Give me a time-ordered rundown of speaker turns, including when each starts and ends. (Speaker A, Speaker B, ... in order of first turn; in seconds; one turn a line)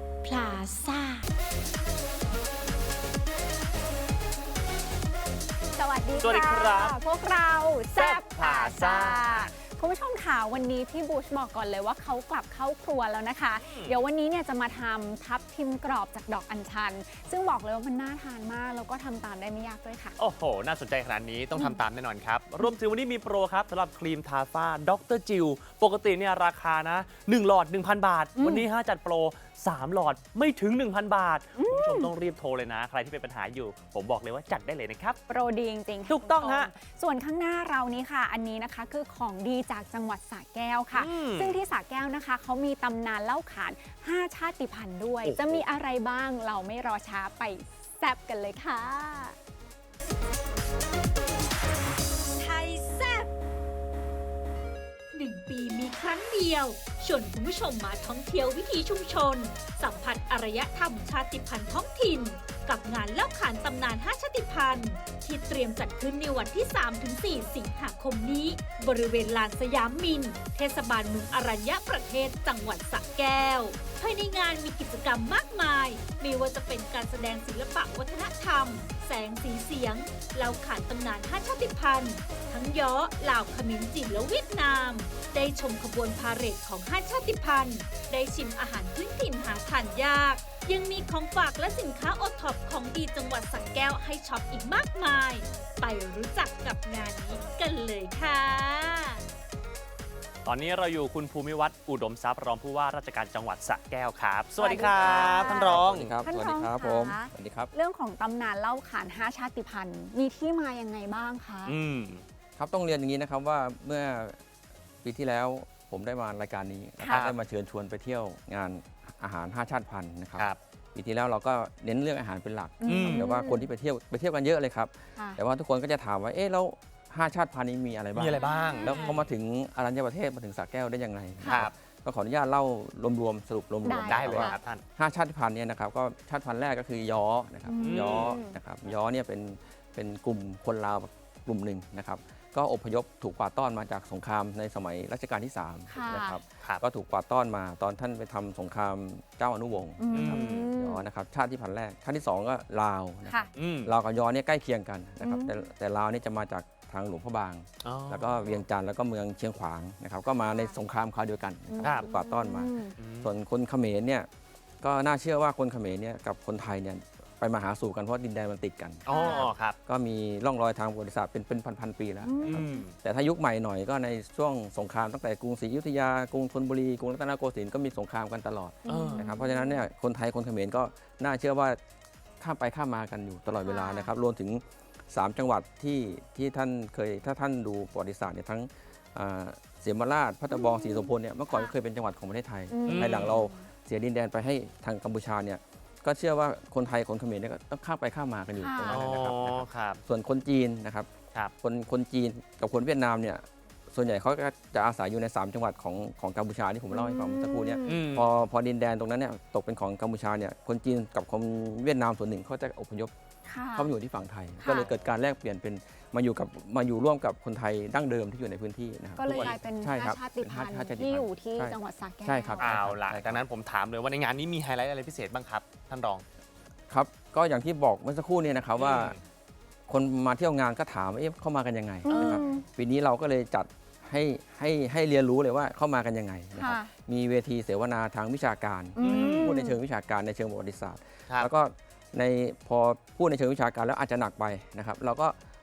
Speaker A: 0.2-1.2
Speaker A: 5.7-20.1
Speaker B: 6.2-7.0
Speaker B: 7.9-9.5
Speaker B: 13.6-14.0
Speaker B: 20.2-35.2
Speaker A: 28.4-28.6
Speaker A: 31.6-32.1
Speaker A: 35.3-49.4
Speaker B: 36.1-36.7
Speaker B: 40.9-41.6
Speaker B: 45.2-45.6
Speaker C: 52.4-53.3
Speaker C: 55.1-99.2
Speaker B: 100.4-106.2
Speaker A: 104.6-111.8
Speaker D: 105.0-107.7
Speaker B: 111.6-112.2
Speaker D: 112.6-114.4
Speaker D: 115.0-164.3
Speaker B: 117.0-117.4
Speaker A: 122.8-123.7
Speaker B: 122.9-123.3
Speaker B: 128.1-129.2
Speaker A: 128.3-129.2
Speaker A: 131.4-131.7
Speaker B: 131.4-131.7
Speaker A: 133.8-134.6
Speaker B: 134.0-134.8
Speaker A: 137.7-138.6
Speaker B: 137.8-138.4
Speaker A: 145.9-146.4
Speaker A: 150.0-151.1
Speaker B: 150.1-150.6
Speaker B: 153.5-153.9
Speaker A: 155.2-155.6
Speaker B: 157.8-158.6
Speaker A: 160.3-160.8
Speaker A: 161.7-162.9
Speaker B: 161.8-162.1
Speaker B: 163.0-163.3
Speaker D: 164.8-181.8
Speaker B: 169.1-169.8
Speaker A: 169.1-169.5
Speaker A: 172.2-172.8
Speaker B: 172.4-172.9
Speaker A: 178.8-179.8
Speaker B: 178.9-179.3
Speaker D: 182.4-201.1
Speaker A: 183.6-184.1
Speaker A: 190.5-191.7
Speaker A: 192.7-193.5
Speaker B: 192.9-193.5
Speaker A: 198.6-199.0
Speaker B: 198.8-200.0
Speaker D: 201.6-213.1
Speaker A: 206.9-208.0
Speaker B: 207.8-208.3
Speaker A: 213.4-213.9
Speaker D: 213.7-223.4
Speaker A: 214.6-214.9
Speaker A: 219.2-222.7
Speaker B: 219.2-219.6
Speaker B: 222.6-226.2
Speaker D: 226.9-229.2
Speaker B: 228.8-229.2
Speaker D: 229.9-245.3
Speaker A: 232.0-232.6
Speaker B: 232.1-232.4
Speaker A: 236.5-236.9
Speaker A: 238.9-239.8
Speaker B: 239.0-239.5